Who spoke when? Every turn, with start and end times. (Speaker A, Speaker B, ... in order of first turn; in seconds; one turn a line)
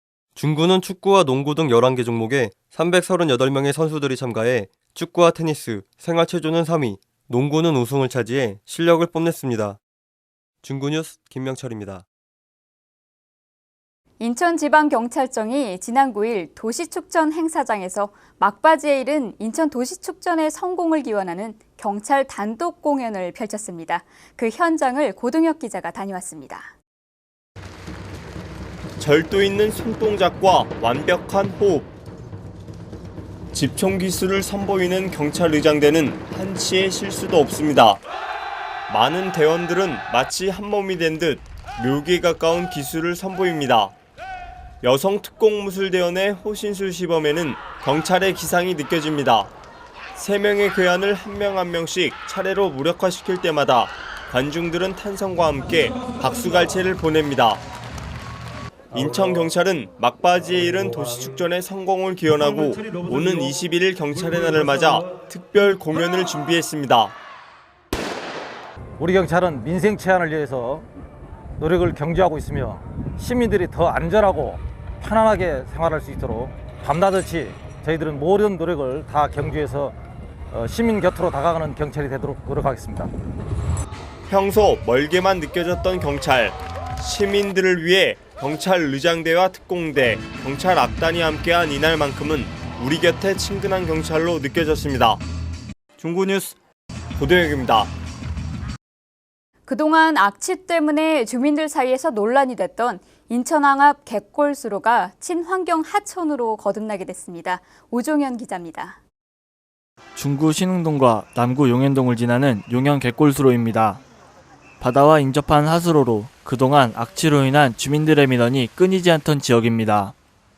Speaker A: 0.4-9.8
Speaker A: 10.6-12.1
Speaker B: 14.2-26.7
Speaker C: 29.0-31.9
Speaker C: 33.5-38.0
Speaker C: 38.9-43.9
Speaker C: 44.8-49.5
Speaker C: 50.2-57.6
Speaker C: 58.9-67.1
Speaker D: 69.0-70.8
Speaker D: 71.6-80.0
Speaker D: 80.5-83.1
Speaker C: 84.3-95.2
Speaker C: 96.0-96.5
Speaker C: 97.2-97.9
Speaker B: 99.7-109.0
Speaker E: 110.2-114.0
Speaker E: 114.8-120.1